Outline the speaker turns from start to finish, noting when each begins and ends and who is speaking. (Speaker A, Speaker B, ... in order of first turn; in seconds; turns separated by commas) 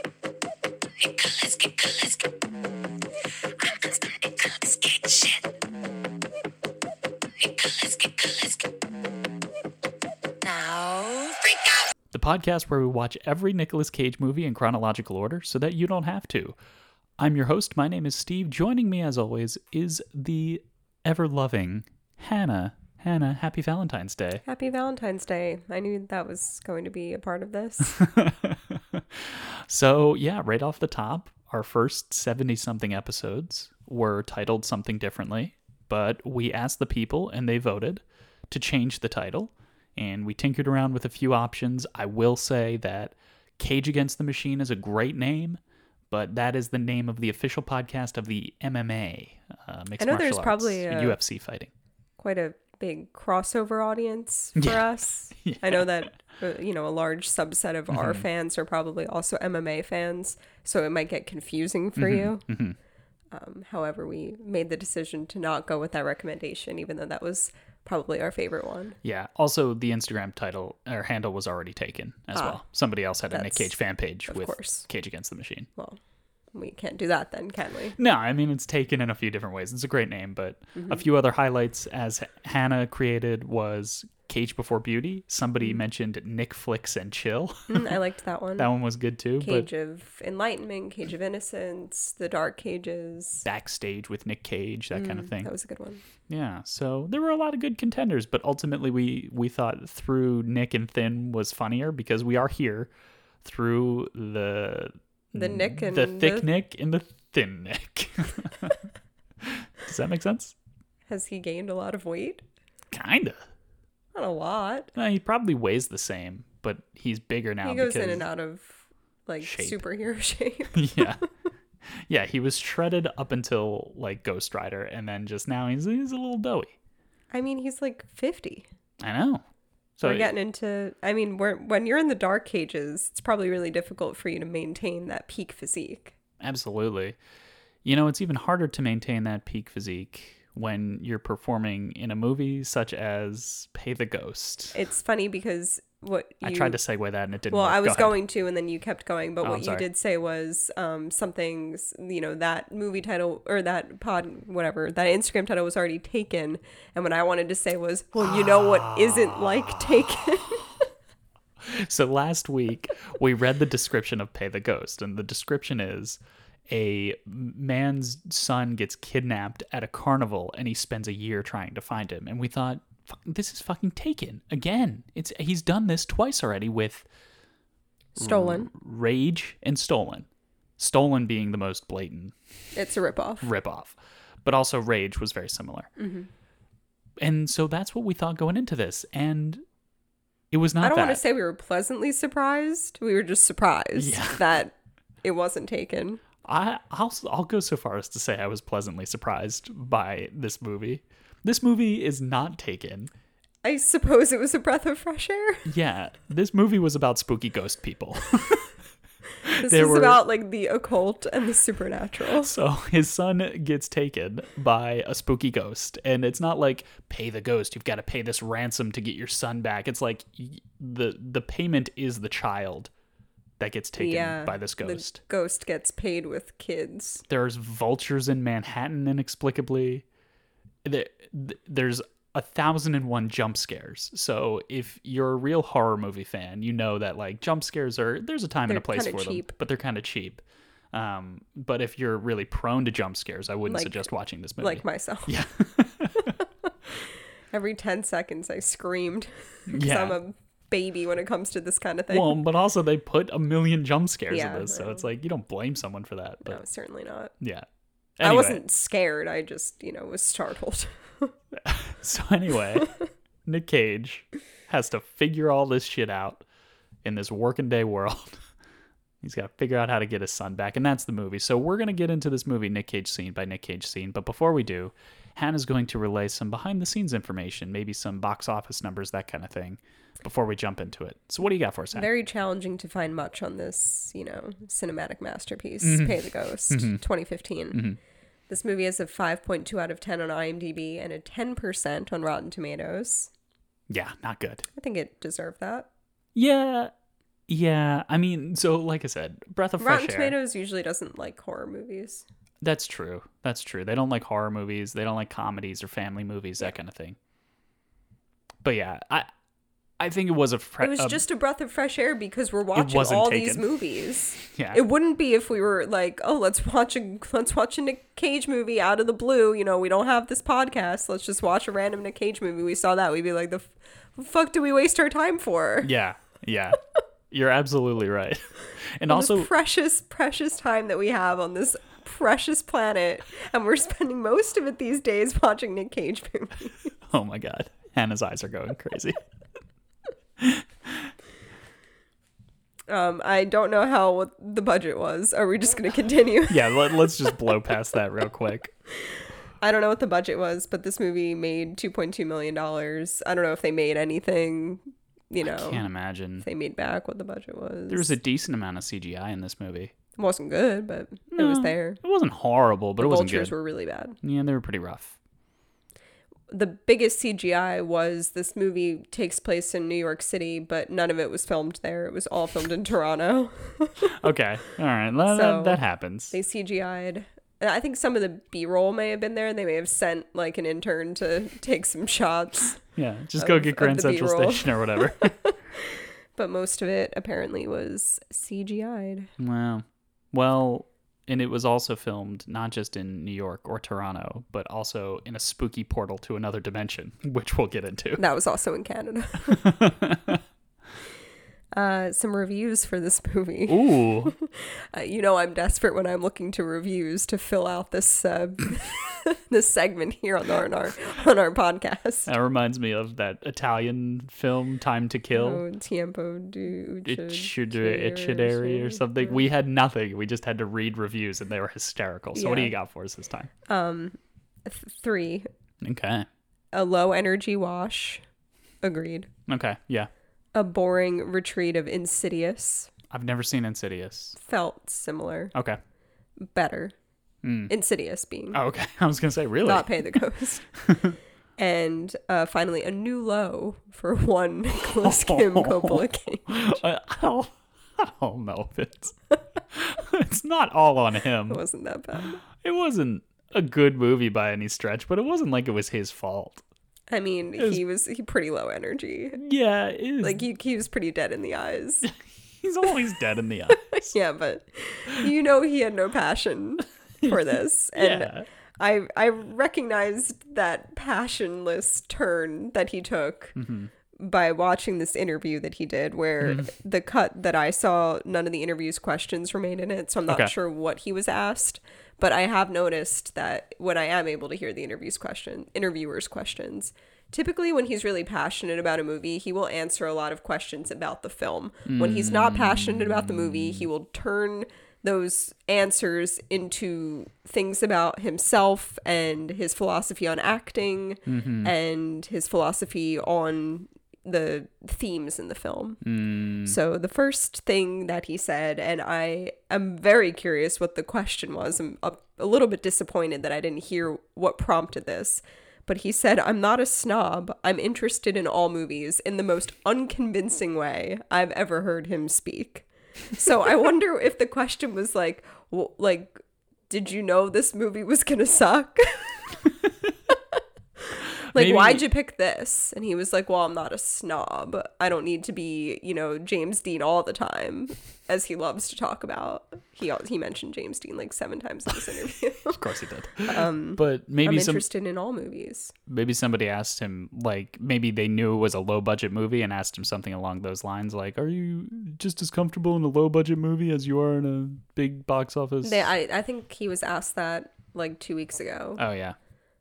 Speaker A: 1.0-2.4, Speaker A: 3.6-5.5, Speaker A: 7.4-8.7, Speaker A: 10.4-11.9, Speaker B: 12.1-16.6, Speaker B: 17.2-24.4, Speaker C: 24.4-28.0, Speaker B: 27.9-51.7, Speaker C: 50.0-51.2, Speaker C: 52.2-62.4, Speaker B: 54.5-56.1, Speaker B: 57.9-58.2, Speaker B: 62.0-62.8, Speaker C: 63.3-69.0, Speaker B: 69.0-75.7, Speaker C: 72.3-72.6, Speaker C: 73.3-73.7, Speaker C: 74.3-74.9, Speaker C: 76.5-78.0, Speaker B: 78.0-88.0, Speaker C: 80.8-81.0, Speaker C: 87.7-88.7, Speaker B: 88.6-89.7, Speaker C: 89.4-93.5, Speaker B: 93.4-95.5, Speaker C: 94.9-96.0, Speaker B: 96.3-102.9, Speaker B: 103.4-108.8, Speaker C: 105.3-106.5, Speaker B: 109.4-110.5, Speaker C: 111.1-112.4, Speaker B: 112.9-113.4, Speaker C: 114.1-114.9, Speaker B: 114.9-118.2, Speaker C: 117.6-121.3, Speaker B: 119.4-119.8, Speaker B: 120.7-121.2, Speaker B: 121.9-126.7, Speaker C: 127.3-128.7, Speaker B: 129.0-129.4, Speaker B: 130.0-130.3, Speaker C: 130.0-136.1, Speaker B: 136.4-137.2, Speaker B: 137.8-144.7, Speaker C: 144.7-146.8, Speaker B: 146.4-148.2, Speaker C: 147.5-160.7, Speaker B: 149.4-149.8, Speaker B: 158.2-160.3, Speaker B: 161.6-177.1, Speaker C: 178.2-178.7, Speaker B: 178.2-182.3, Speaker C: 182.7-183.5, Speaker B: 183.4-185.9, Speaker C: 186.0-186.3, Speaker B: 187.2-189.6, Speaker B: 190.5-191.2, Speaker C: 190.8-196.2, Speaker B: 194.0-194.4, Speaker B: 196.4-203.1, Speaker C: 203.6-205.7, Speaker B: 205.6-208.7, Speaker B: 209.4-210.2, Speaker C: 209.6-212.5, Speaker B: 212.4-222.9, Speaker B: 223.6-225.2, Speaker C: 224.0-227.2, Speaker B: 227.3-230.0, Speaker B: 230.8-240.4, Speaker C: 238.7-239.5, Speaker B: 240.9-246.3, Speaker C: 243.7-244.1, Speaker C: 244.6-245.3, Speaker C: 247.5-252.4, Speaker B: 249.7-250.2, Speaker B: 252.1-256.6, Speaker C: 254.3-255.0, Speaker C: 256.4-257.3, Speaker B: 257.4-257.6, Speaker B: 258.2-258.6, Speaker C: 258.2-261.3, Speaker B: 261.5-262.9, Speaker B: 263.4-266.4, Speaker B: 267.0-268.4, Speaker B: 269.2-282.1, Speaker C: 281.9-287.8, Speaker B: 285.8-287.0, Speaker B: 287.7-288.0, Speaker C: 288.5-293.3, Speaker B: 293.9-294.6, Speaker C: 294.7-295.9, Speaker B: 296.3-296.9, Speaker B: 297.5-300.3, Speaker C: 299.8-302.2, Speaker B: 302.6-307.2, Speaker B: 308.6-309.3, Speaker B: 310.0-311.2, Speaker C: 310.8-325.9, Speaker B: 312.7-313.6, Speaker B: 314.4-314.8, Speaker B: 325.8-326.8, Speaker B: 327.3-329.5, Speaker C: 329.1-336.9, Speaker B: 337.1-339.2, Speaker B: 340.4-341.1, Speaker C: 342.9-347.3, Speaker B: 346.5-348.7, Speaker C: 349.6-355.8, Speaker B: 355.4-356.4, Speaker C: 356.4-358.1, Speaker B: 357.9-359.9, Speaker C: 360.2-362.0, Speaker B: 361.3-363.5, Speaker C: 363.0-364.2, Speaker B: 364.2-365.1, Speaker C: 366.5-374.1, Speaker B: 374.0-376.4, Speaker C: 375.2-375.8, Speaker C: 376.3-382.8, Speaker B: 382.9-385.4, Speaker C: 383.4-389.3, Speaker B: 389.4-398.2, Speaker C: 398.2-399.6, Speaker B: 399.5-400.4, Speaker C: 401.7-412.3, Speaker B: 403.7-404.3, Speaker B: 412.2-415.6, Speaker C: 415.3-419.3, Speaker B: 417.0-423.5, Speaker C: 422.3-422.7, Speaker C: 423.6-425.5, Speaker B: 425.8-426.3, Speaker C: 426.7-428.2, Speaker C: 428.8-429.3, Speaker B: 429.5-430.1, Speaker C: 430.5-432.9, Speaker B: 433.1-434.4, Speaker C: 434.4-435.5, Speaker B: 435.5-435.8, Speaker C: 436.4-436.9, Speaker B: 437.4-437.7, Speaker C: 437.7-438.6, Speaker B: 438.5-440.1, Speaker C: 439.6-440.7, Speaker B: 440.9-441.1, Speaker C: 441.6-446.8, Speaker B: 444.9-449.1, Speaker B: 449.7-451.6, Speaker C: 451.5-452.4, Speaker B: 452.5-456.6, Speaker C: 457.1-459.4, Speaker B: 457.6-457.8, Speaker B: 459.3-460.4, Speaker C: 460.2-462.1, Speaker B: 462.0-464.1, Speaker C: 464.1-473.6, Speaker B: 467.2-468.5, Speaker B: 473.6-473.9, Speaker C: 474.1-506.0, Speaker B: 476.4-476.7, Speaker B: 480.3-480.5, Speaker B: 491.9-493.9, Speaker B: 501.2-501.7, Speaker B: 506.0-506.8, Speaker C: 506.6-529.4, Speaker B: 531.5-532.1, Speaker C: 531.5-542.8, Speaker B: 542.7-544.8, Speaker C: 543.5-545.9, Speaker B: 546.1-556.1, Speaker C: 555.8-559.0, Speaker B: 559.0-559.4